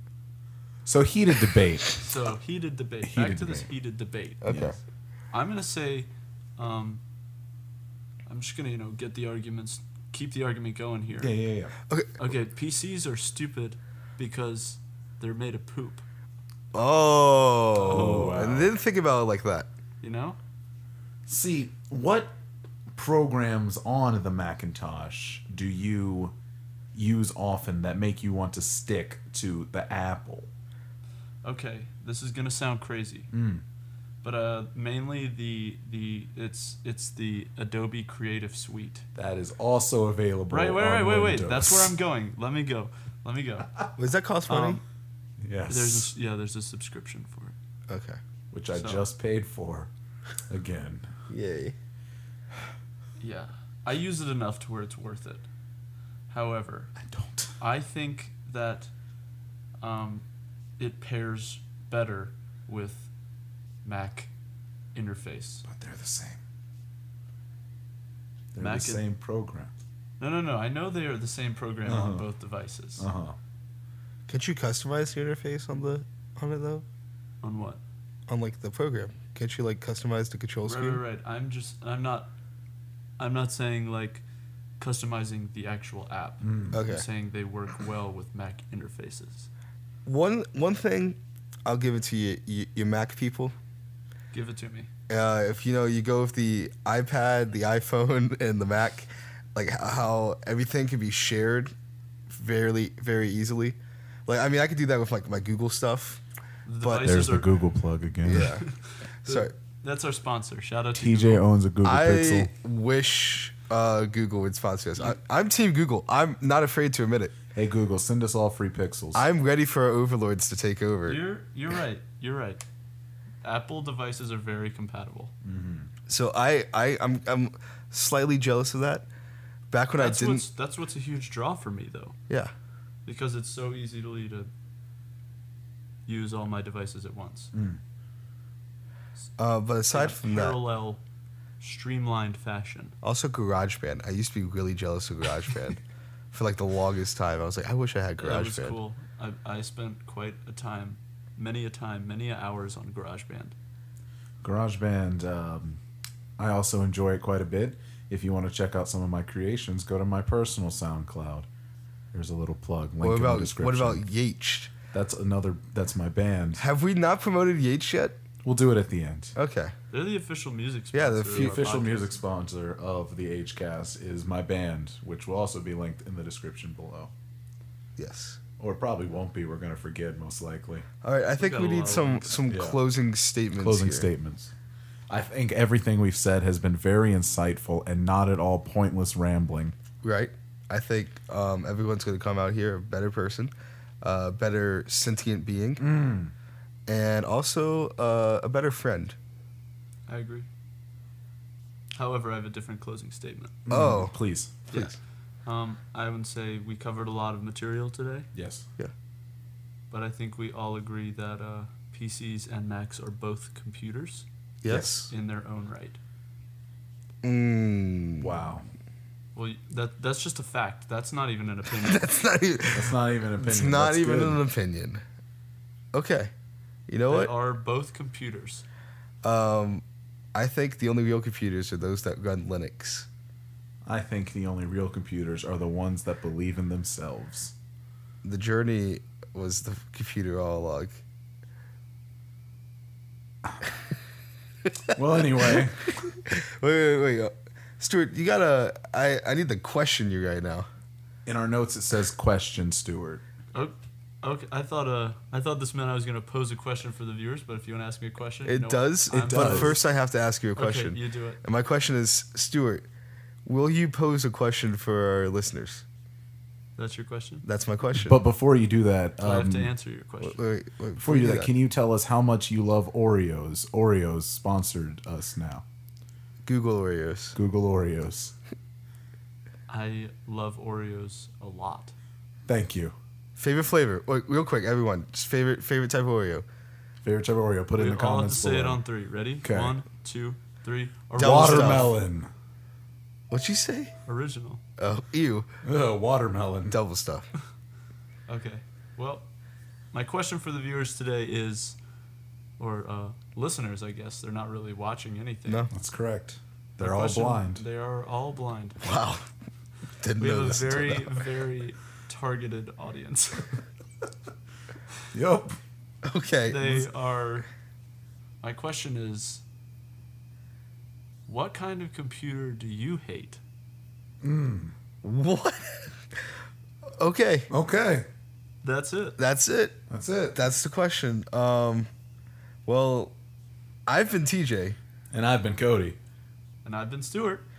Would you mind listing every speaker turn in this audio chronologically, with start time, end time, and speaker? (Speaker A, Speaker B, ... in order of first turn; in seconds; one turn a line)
Speaker A: 0.8-2.0
Speaker B: 2.0-4.4
Speaker A: 3.0-3.7
Speaker C: 4.4-4.8
Speaker A: 4.5-4.8
Speaker B: 5.3-7.0
Speaker B: 8.2-11.3
Speaker A: 11.2-11.7
Speaker B: 12.2-16.0
Speaker C: 16.7-19.7
Speaker B: 17.7-18.4
Speaker A: 17.8-18.7
Speaker B: 20.0-20.4
Speaker A: 21.3-22.3
Speaker A: 22.9-26.3
Speaker A: 26.9-30.5
Speaker B: 31.4-33.3
Speaker A: 33.3-33.6
Speaker B: 34.2-39.0
Speaker A: 39.1-41.9
Speaker B: 40.5-43.7
Speaker C: 44.0-44.8
Speaker B: 44.5-44.8
Speaker A: 45.4-46.1
Speaker B: 45.7-47.5
Speaker C: 47.9-48.2
Speaker A: 48.5-49.9
Speaker B: 48.7-49.1
Speaker A: 50.5-51.1
Speaker C: 51.3-51.7
Speaker B: 53.2-55.4
Speaker B: 56.3-56.9
Speaker A: 57.0-57.5
Speaker B: 57.6-58.9
Speaker B: 59.8-60.2
Speaker B: 60.8-63.1
Speaker B: 63.8-64.3
Speaker B: 64.9-65.6
Speaker A: 65.7-66.4
Speaker A: 68.5-69.7
Speaker B: 68.6-69.0
Speaker B: 70.2-73.1
Speaker A: 71.8-72.3
Speaker A: 73.0-73.4
Speaker C: 74.3-76.8
Speaker B: 77.4-77.8
Speaker C: 78.3-81.0
Speaker B: 80.6-82.3
Speaker B: 83.2-84.2
Speaker B: 84.8-89.5
Speaker A: 86.4-86.8
Speaker C: 86.7-87.0
Speaker C: 90.0-93.5
Speaker B: 94.3-94.9
Speaker C: 95.1-101.7
Speaker C: 102.3-106.2
Speaker B: 106.7-107.5
Speaker C: 106.8-107.1
Speaker A: 107.0-108.5
Speaker C: 108.2-108.6
Speaker B: 108.3-111.4
Speaker C: 109.2-109.5
Speaker A: 111.0-112.5
Speaker C: 111.8-117.3
Speaker A: 117.5-119.2
Speaker C: 119.1-121.2
Speaker B: 121.1-122.6
Speaker B: 123.4-125.3
Speaker A: 125.4-125.9
Speaker C: 126.1-129.1
Speaker C: 129.7-130.5
Speaker B: 130.0-132.2
Speaker B: 133.1-134.5
Speaker B: 136.1-137.5
Speaker A: 137.5-137.8
Speaker C: 139.4-140.6
Speaker B: 139.9-141.0
Speaker B: 141.6-142.9
Speaker C: 143.0-145.8
Speaker C: 146.3-148.8
Speaker B: 148.2-153.5
Speaker A: 154.4-155.8
Speaker A: 156.4-161.4
Speaker A: 162.1-164.0
Speaker C: 163.0-164.7
Speaker A: 164.9-166.6
Speaker C: 166.6-168.2
Speaker A: 168.4-169.3
Speaker C: 169.3-169.7
Speaker B: 169.9-172.1
Speaker C: 170.9-171.7
Speaker A: 171.3-177.1
Speaker C: 178.0-178.4
Speaker A: 178.6-180.8
Speaker C: 181.0-184.1
Speaker B: 181.4-182.4
Speaker A: 182.5-182.8
Speaker A: 183.6-184.5
Speaker A: 185.1-189.7
Speaker C: 190.0-195.8
Speaker A: 195.8-196.3
Speaker C: 196.9-199.2
Speaker B: 200.1-200.5
Speaker B: 201.9-203.6
Speaker A: 203.7-204.6
Speaker C: 203.7-204.1
Speaker B: 204.7-208.3
Speaker A: 208.3-208.7
Speaker B: 209.9-214.2
Speaker C: 214.6-215.1
Speaker A: 214.7-215.0
Speaker B: 215.1-216.0
Speaker C: 217.2-218.5
Speaker A: 218.2-218.7
Speaker B: 219.3-222.0
Speaker C: 221.8-225.0
Speaker A: 222.7-224.4
Speaker C: 225.9-226.3
Speaker C: 226.9-227.3
Speaker B: 227.1-228.6
Speaker C: 229.2-233.1
Speaker A: 233.8-237.5
Speaker C: 238.2-241.0
Speaker A: 244.9-245.8
Speaker C: 245.4-250.7
Speaker A: 251.2-253.2
Speaker B: 253.5-259.8
Speaker C: 258.4-262.9
Speaker A: 259.2-259.8
Speaker B: 260.6-261.4
Speaker C: 263.4-265.8
Speaker B: 266.8-267.4
Speaker C: 267.4-268.2
Speaker A: 267.9-269.7
Speaker B: 269.2-270.4
Speaker C: 270.2-271.5
Speaker A: 271.0-275.6
Speaker C: 276.4-277.4
Speaker A: 277.4-278.3
Speaker B: 279.7-281.9
Speaker A: 282.5-282.9
Speaker C: 283.4-286.4
Speaker A: 287.0-288.8
Speaker B: 287.7-291.9
Speaker A: 289.4-289.7
Speaker C: 291.2-291.9
Speaker A: 291.2-292.3
Speaker C: 293.3-293.9
Speaker B: 294.1-294.6
Speaker C: 294.8-295.5
Speaker A: 295.6-296.8
Speaker C: 296.7-297.3
Speaker B: 298.3-299.2
Speaker B: 299.9-301.8
Speaker B: 302.6-305.7
Speaker A: 305.7-307.6
Speaker B: 306.8-308.8
Speaker C: 308.8-309.3
Speaker C: 310.0-311.2
Speaker B: 310.2-313.5
Speaker A: 315.1-315.6
Speaker C: 316.0-316.9
Speaker B: 316.5-317.5
Speaker B: 318.4-319.4
Speaker B: 321.3-323.4
Speaker A: 324.2-324.7
Speaker C: 325.0-325.9
Speaker C: 327.0-327.5
Speaker A: 327.5-328.1
Speaker B: 328.6-329.2
Speaker C: 329.2-331.9
Speaker A: 329.9-330.4
Speaker C: 332.6-333.1
Speaker C: 333.9-334.8
Speaker A: 335.1-336.0
Speaker B: 336.6-337.4